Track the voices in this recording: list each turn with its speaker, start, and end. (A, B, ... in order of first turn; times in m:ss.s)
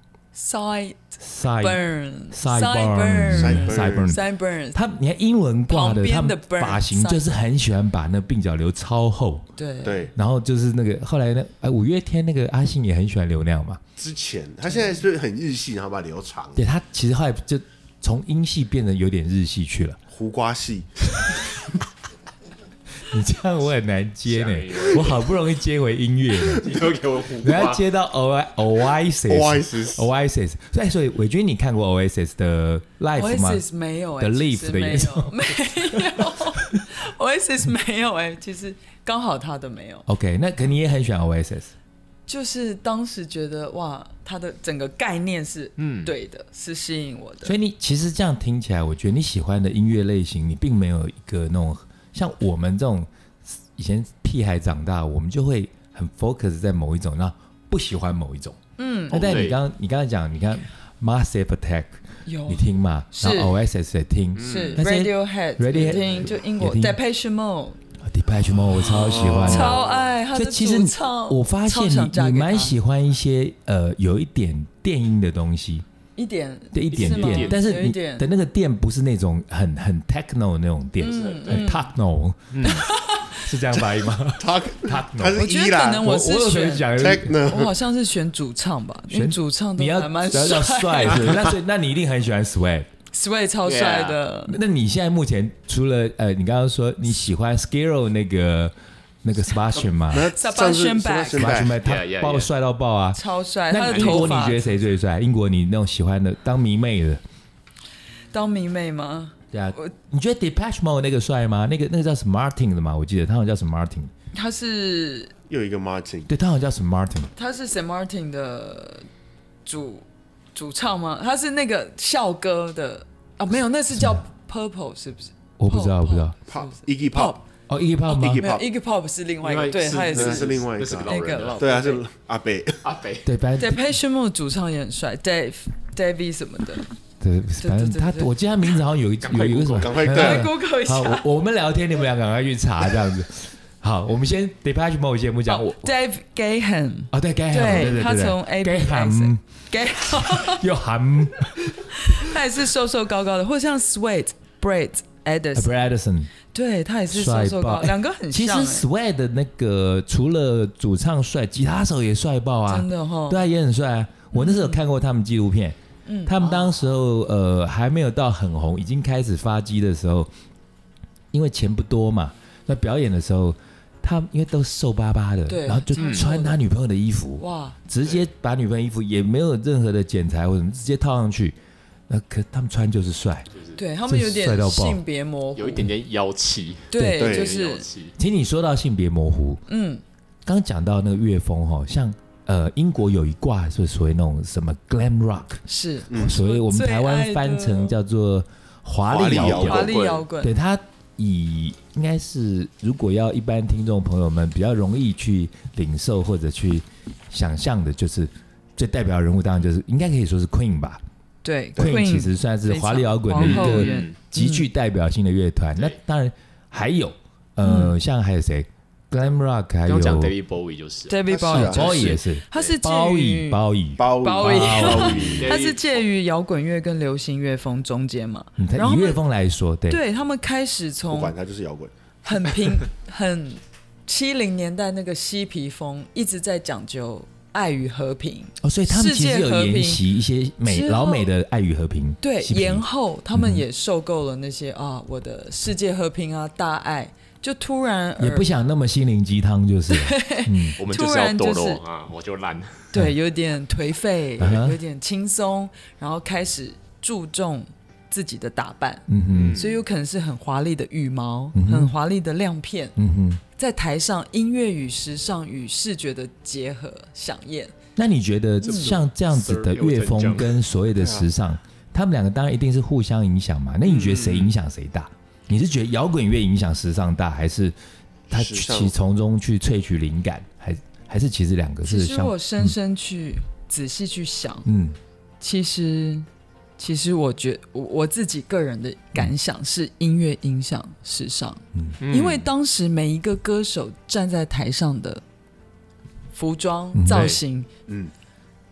0:00.4-0:04.8 A
0:01.2-0:09.4 B
0:03.3-0:04.2 C
0:05.7-0:07.3 A
0:09.6-0:10.1 A
0:09.8-0:10.1 C
0:10.1-0:13.8 B
0:14.0-0:16.6 C
0:16.6-0:20.0 B
0:20.1-0:21.3 C
0:23.1-0:26.8 B
0:24.3-0:25.3 D
0:26.4-0:27.8 D
0:27.4-0:33.6 B
0:29.3-0:30.1 C
0:33.2-0:40.1 A
0:34.2-0:36.8 B
0:40.1-0:41.7 B
0:42.3-0:47.5 A
0:45.8-0:46.1 D
0:47.4-0:58.6 B
0:58.8-0:59.3 A
0:59.1-1:07.0 B
0:59.1-0:59.6 D
1:02.2-1:03.6 A
1:04.4-1:04.8 D
1:04.4-1:07.8 A
1:08.0-1:09.8 B
1:08.7-1:10.0 D
1:08.9-1:09.8 C
1:09.4-1:12.8 A
1:10.3-1:15.8 B
1:16.2-1:18.3 A
1:16.7-1:27.4 B
1:16.9-1:17.6 D
1:21.0-1:21.7 D
1:21.0-1:21.9 A
1:22.5-1:22.8 D
1:22.6-1:23.4 A
1:24.4-1:26.1 C
1:25.4-1:31.4 A
1:27.0-1:27.8 C
1:29.1-1:32.9 B
1:33.1-1:34.6 A
1:33.6-1:34.2 D
1:34.5-1:40.3 B
1:40.0-1:41.8 C
1:40.3-1:41.6 A
1:41.3-1:47.2 B
1:41.8-1:42.5 D
1:43.1-1:44.8 A
1:43.8-1:44.4 D
1:48.3-1:49.9 A
1:49.5-1:54.1 B
1:54.3-1:55.3 A
1:55.5-1:56.3 C
1:56.3-1:57.3 B
1:57.4-1:59.1 A
1:59.6-2:07.4 A
2:03.9-2:04.2 B
2:05.6-2:06.4 B
2:06.5-2:07.4 C
2:07.7-2:08.4 B
2:08.1-2:08.6 C
2:08.1-2:12.0 A
2:09.4-2:11.8 D
2:09.9-2:12.8 C
2:12.8-2:13.3 D
2:13.2-2:13.9 B
2:13.6-2:16.9 A
2:17.2-2:25.9 B
2:17.6-2:18.3 A
2:19.2-2:20.1 D
2:19.8-2:20.5 C
2:20.1-2:21.3 A
2:25.5-2:30.6 A
2:27.1-2:29.4 B
2:30.0-2:31.7 B
2:31.8-2:35.7 A
2:35.6-2:36.3 B
2:36.5-2:38.9 A
2:37.1-2:50.3 B
2:42.7-2:43.4 A
2:44.3-2:44.8 A
2:46.1-2:46.7 A
2:51.3-3:01.6 B
2:55.5-2:56.6 A
2:56.0-2:56.3 D
2:57.4-2:57.8 A
3:02.1-3:03.5 B
3:03.5-3:03.8 D
3:03.8-3:05.9 A
3:04.1-3:05.0 B
3:05.6-3:08.2 D
3:06.9-3:07.9 A
3:07.0-3:07.3 B
3:07.2-3:07.5 C
3:08.2-3:09.6 B
3:09.7-3:10.0 A
3:10.4-3:31.0 B
3:15.7-3:17.9 A
3:16.1-3:16.4 C
3:19.1-3:19.9 C
3:19.3-3:20.2 D
3:19.6-3:20.5 A
3:31.4-3:34.7 A
3:31.8-3:40.4 B
3:33.4-3:34.2 D
3:37.6-3:38.0 A
3:39.9-3:42.7 D
3:41.1-3:43.6 A
3:41.3-3:42.0 C
3:41.5-3:45.5 B
3:44.0-3:45.5 C
3:44.2-3:49.2 A
3:44.8-3:46.0 D
3:48.6-3:50.0 B
3:49.9-3:51.3 A
3:51.1-3:51.9 C
3:52.2-4:00.0 A
3:58.6-4:03.6 B
4:00.6-4:01.3 A
4:02.2-4:08.5 A
4:08.2-4:10.8 B
4:09.9-4:11.8 A
4:10.8-4:12.9 D
4:12.9-4:22.9 A
4:14.4-4:14.8 B
4:19.1-4:19.6 B
4:19.3-4:19.8 D
4:21.5-4:22.0 B
4:23.0-4:23.4 B
4:23.6-4:27.7 A
4:28.0-4:37.8 B
4:28.6-4:28.9 A
4:28.6-4:30.6 D
4:31.0-4:31.3 C
4:33.8-4:34.5 D
4:38.3-4:38.9 C
4:38.3-4:42.8 B
4:41.8-4:44.7 A
4:44.7-4:45.0 B
4:45.4-4:46.3 A
4:46.8-4:55.2 A
4:51.7-4:52.0 B
4:52.0-4:52.5 D
4:56.3-4:57.7 A
4:56.9-4:57.3 B
4:57.1-4:57.4 D